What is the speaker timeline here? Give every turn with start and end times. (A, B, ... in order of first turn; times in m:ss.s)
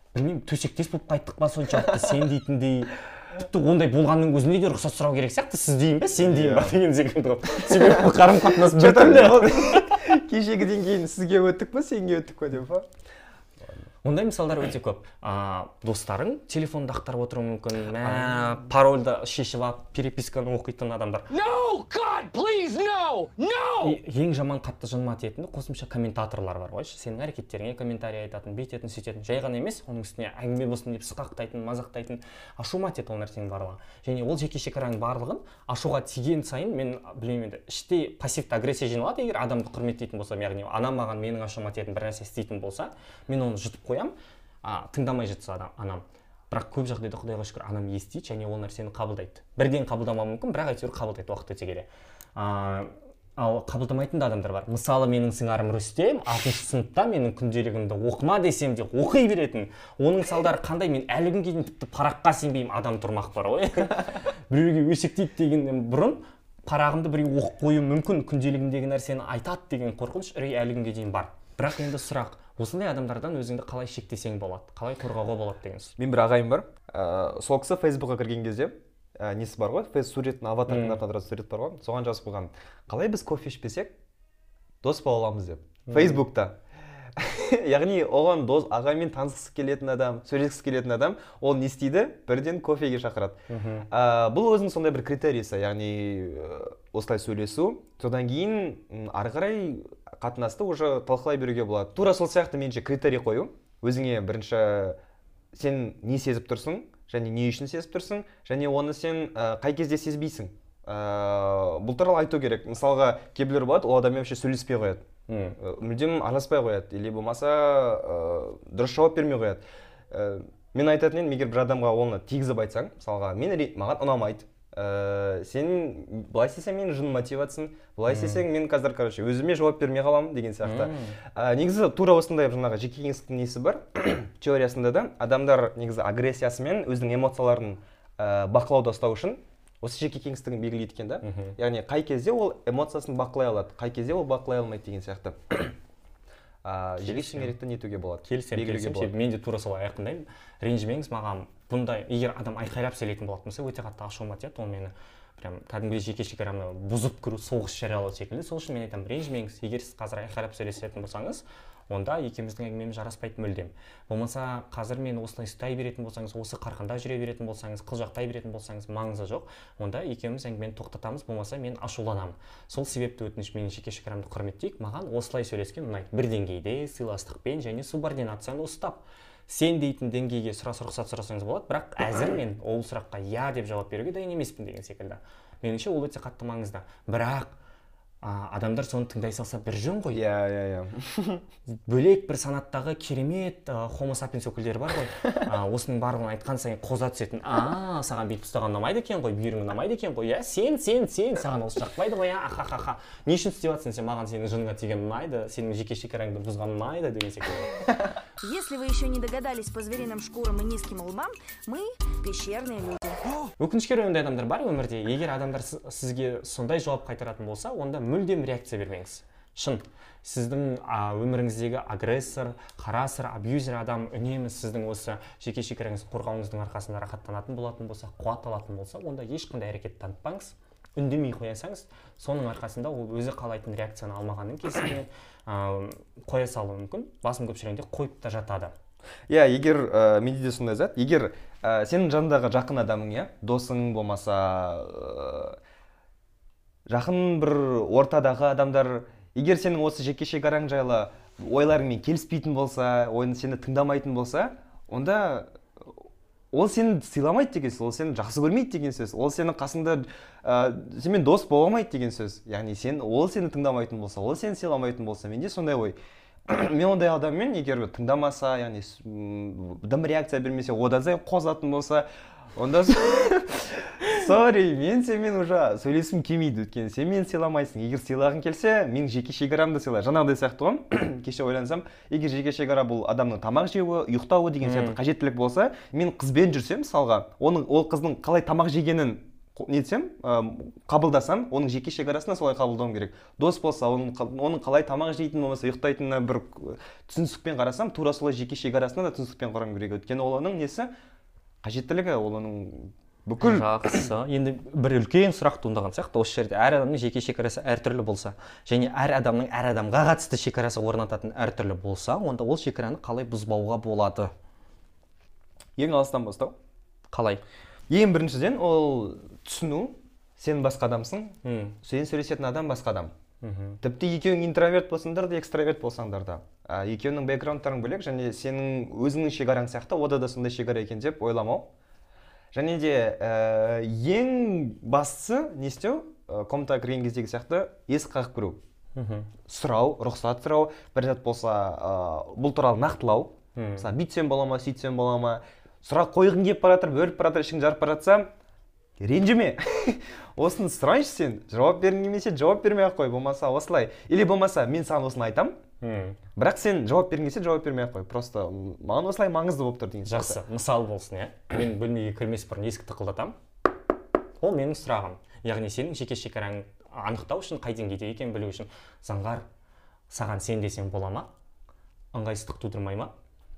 0:00.1-0:09.9 A
0:06.2-0:06.8 B
0:08.6-0:12.9 B
0:14.0-0:21.3 A
0:18.0-0:18.4 B
0:21.3-0:24.0 C
0:23.8-1:16.0 A
1:16.0-1:23.9 B
1:20.7-1:21.0 A
1:24.8-1:26.6 B
1:25.9-1:26.2 A
1:27.1-1:45.0 B
1:33.5-1:33.9 A
1:45.5-1:55.0 B
1:55.3-1:55.6 A
1:55.6-2:25.7 B
2:08.1-2:08.4 A
2:10.6-2:11.2 A
2:21.2-2:21.6 A
2:26.6-2:29.1 B
2:27.0-2:27.5 A
2:28.2-3:07.5 A
3:08.2-3:10.2 A
3:10.1-3:11.4 B
3:11.7-3:27.8 A
3:28.4-3:33.2 D
3:33.6-3:58.7 A
3:59.3-4:05.6 B
4:06.9-4:15.9 B
4:16.5-5:00.9 B
4:44.6-4:45.0 A
5:01.6-5:03.7 B
5:03.4-5:14.3 A
5:15.8-5:16.5 B
5:17.1-5:17.4 A
5:17.9-5:23.1 B
5:21.4-5:21.8 A
5:23.4-5:23.8 A
5:23.8-5:31.7 B
5:32.5-5:38.6 B
5:38.9-5:39.3 A
5:39.5-5:48.3 B
5:43.6-5:43.9 A
5:49.0-5:55.6 B
5:55.8-5:56.2 A
5:56.4-6:00.4 B
6:00.0-6:03.4 A
6:04.4-6:09.4 A
6:10.1-6:11.3 A
6:12.1-6:13.1 A